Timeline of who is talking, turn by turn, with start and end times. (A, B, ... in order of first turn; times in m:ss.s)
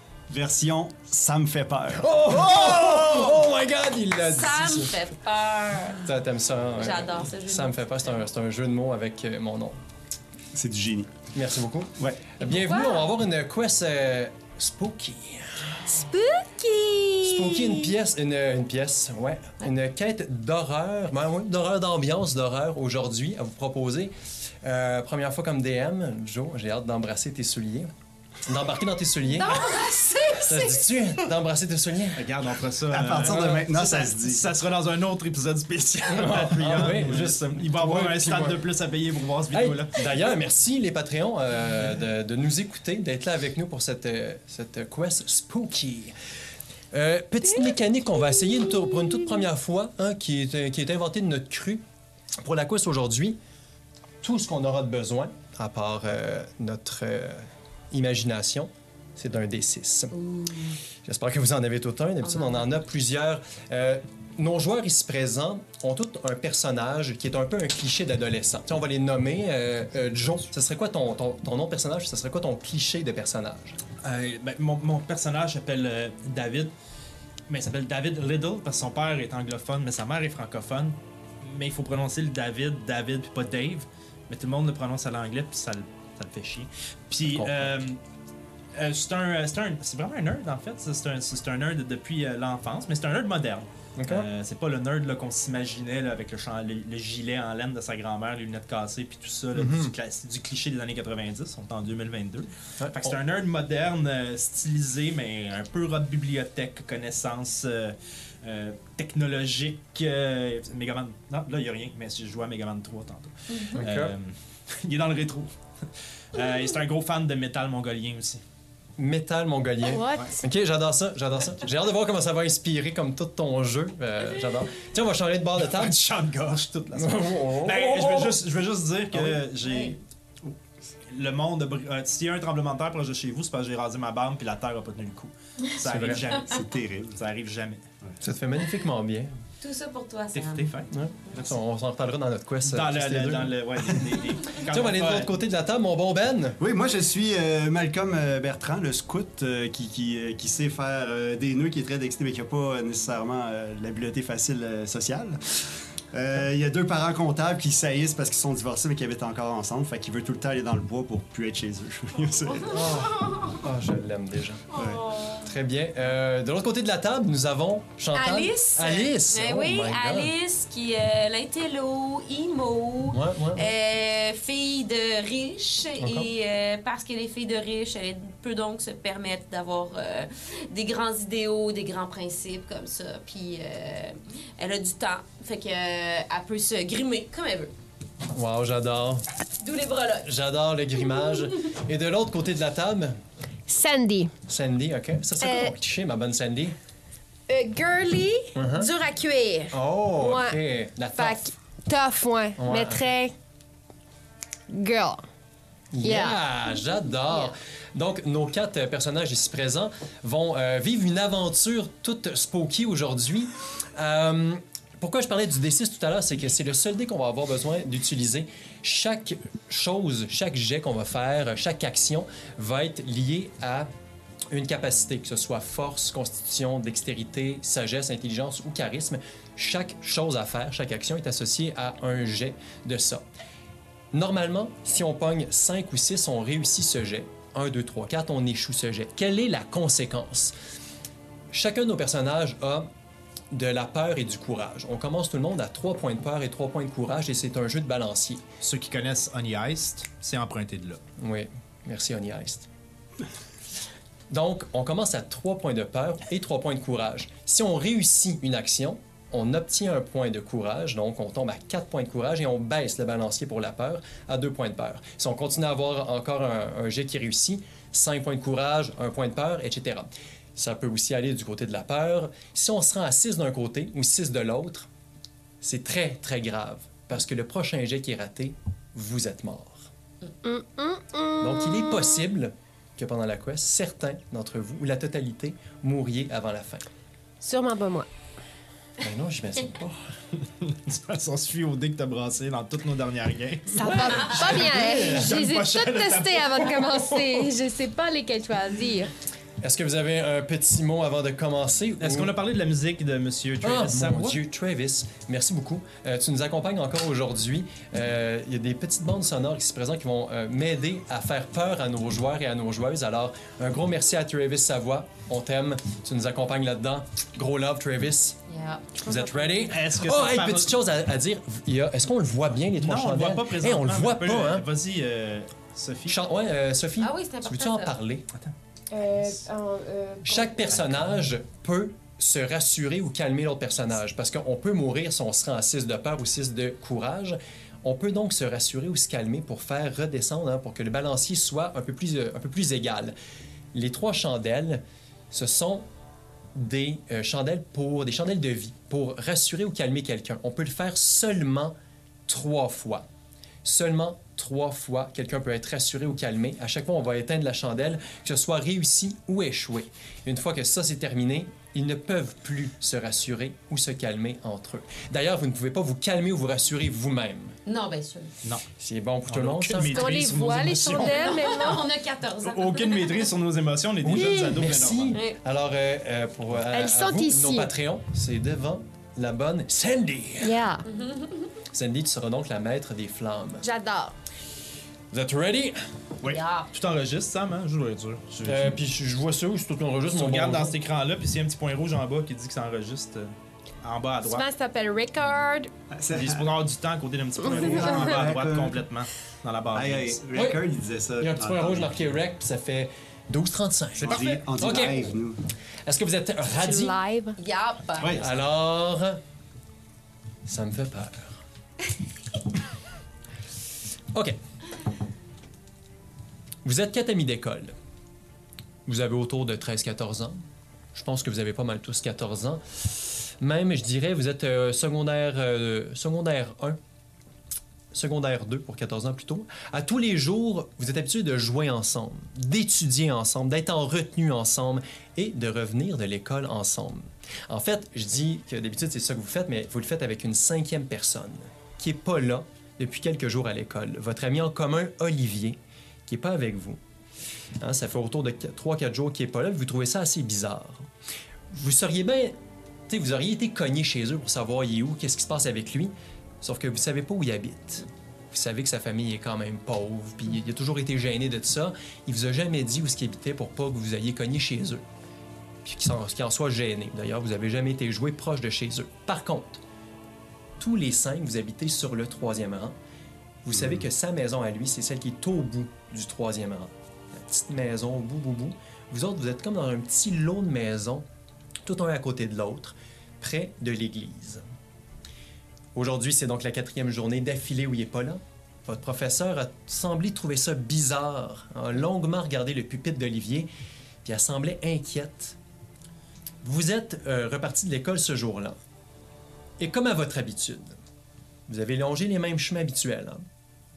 0:00.3-0:02.7 A
0:02.0-0:04.9 B
0:04.2-0:06.0 C
0:06.0-0:09.8 B
0:06.8-0:07.8 C
0:10.5-0:11.2 A
0:11.3-0:15.8 B
0:12.0-0:12.3 A
0:12.4-0:13.1 C
0:15.9-0:17.8 D
0:17.2-0:27.9 B
0:28.4-0:29.8 B
0:29.3-0:30.8 C
0:30.4-0:32.3 B
0:32.2-0:40.0 E
0:32.9-0:34.4 A
0:36.1-0:38.7 B
0:39.5-0:46.2 B
0:46.9-0:51.8 B
0:52.4-0:53.4 B
0:54.2-1:00.2 B
1:00.1-1:00.8 C
1:01.0-1:13.8 B
1:02.2-1:02.6 C
1:14.0-1:16.7 E
1:17.5-1:28.0 E
1:27.2-1:27.8 B
1:28.8-1:55.5 E
1:34.0-1:34.3 B
1:39.5-1:40.0 B
1:42.8-1:43.2 B
1:53.5-1:53.8 C
1:53.8-1:54.1 B
1:56.3-1:58.4 E
1:59.0-2:06.0 B
1:59.8-2:00.3 D
2:05.6-2:10.0 E
2:06.9-2:08.4 B
2:09.6-2:10.0 C
2:11.1-2:16.6 E
2:15.8-2:16.2 B
2:16.4-2:17.2 A
2:17.2-2:17.8 E
2:18.2-2:19.3 B
2:19.6-2:20.7 C
2:20.3-2:21.6 E
2:20.9-2:26.6 B
2:22.6-2:25.3 E
2:26.6-2:35.4 A
2:36.1-2:42.9 A
2:42.5-2:43.6 C
2:42.6-2:44.6 B
2:44.7-2:45.5 C
2:44.8-2:45.0 A
2:45.4-2:50.3 B
2:48.2-3:07.7 C
2:53.1-2:53.7 B
2:56.0-2:56.3 B
3:08.3-3:09.3 B
3:09.6-3:10.3 C
3:10.2-3:13.2 B
3:13.7-3:14.3 D
3:14.5-3:16.8 B
3:15.4-3:15.7 D
3:17.5-3:18.6 D
3:18.6-3:18.9 B
3:18.7-3:19.8 C
3:19.7-3:21.4 B
3:20.2-3:20.6 D
3:21.2-3:23.3 D
3:22.6-3:23.1 B
3:24.7-3:25.2 D
3:25.9-3:43.9 B
3:26.0-3:26.4 D
3:44.5-3:53.2 B
3:54.1-4:00.6 B
4:01.5-4:02.9 B
4:03.5-4:08.4 B
4:08.6-4:11.0 E
4:11.2-4:12.7 B
4:14.3-4:34.9 B
4:35.6-4:39.9 B
4:40.4-4:42.2 D
4:41.4-4:46.9 B
4:47.4-4:48.1 D
4:49.0-4:50.1 B
4:50.6-4:57.5 E
4:53.7-4:59.1 D
4:54.2-4:54.5 C
4:59.6-5:02.4 B
5:02.0-5:04.4 E
5:03.6-5:18.4 B
5:18.5-5:19.0 C
5:19.0-5:19.5 D
5:19.0-5:24.7 B
5:19.7-5:20.7 E
5:22.8-5:26.2 E
5:26.1-5:28.3 B
5:27.0-5:27.9 C
5:28.9-5:30.7 D
5:30.2-5:43.2 B
5:43.7-5:45.9 B
5:46.6-5:51.8 B
5:52.3-5:53.1 B
5:53.6-6:07.6 B
6:07.7-6:08.3 C
6:08.8-6:10.2 B
6:09.3-6:11.7 E
6:09.8-6:11.8 D
6:11.0-6:13.3 C
6:12.4-6:15.2 E
6:14.0-6:20.6 B
6:16.7-6:17.7 D
6:20.4-6:20.9 D
6:20.9-6:21.5 C
6:21.7-6:23.7 B
6:23.6-6:24.2 D
6:25.1-6:25.8 B
6:26.2-6:26.7 C
6:26.7-6:28.8 E
6:28.4-6:30.8 B
6:30.1-6:34.5 E
6:34.2-6:35.7 D
6:35.9-6:36.5 A
6:36.1-6:40.2 E
6:37.4-6:38.8 A
6:39.7-6:42.0 A
6:40.3-6:40.6 B
6:41.2-6:45.2 B
6:44.0-6:44.4 E
6:44.0-6:45.4 A
6:45.8-6:47.0 B
6:46.6-6:47.4 D
6:47.4-6:48.2 C
6:48.0-6:48.3 A
6:48.2-6:49.2 B
6:50.4-6:51.4 B
6:56.6-6:57.7 B
6:58.9-7:00.4 B
7:00.9-7:06.8 B
7:07.9-7:26.8 B
7:27.6-7:30.9 B
7:31.5-7:32.4 B
7:32.9-7:44.8 B
7:45.6-7:49.6 B
7:50.6-7:52.8 B
7:53.4-8:01.1 B
7:53.5-7:53.9 A
8:01.6-8:04.4 B
8:05.8-8:13.5 B
8:14.0-8:15.4 B
8:16.4-8:18.6 B
8:19.6-8:20.8 B
8:21.5-8:23.2 B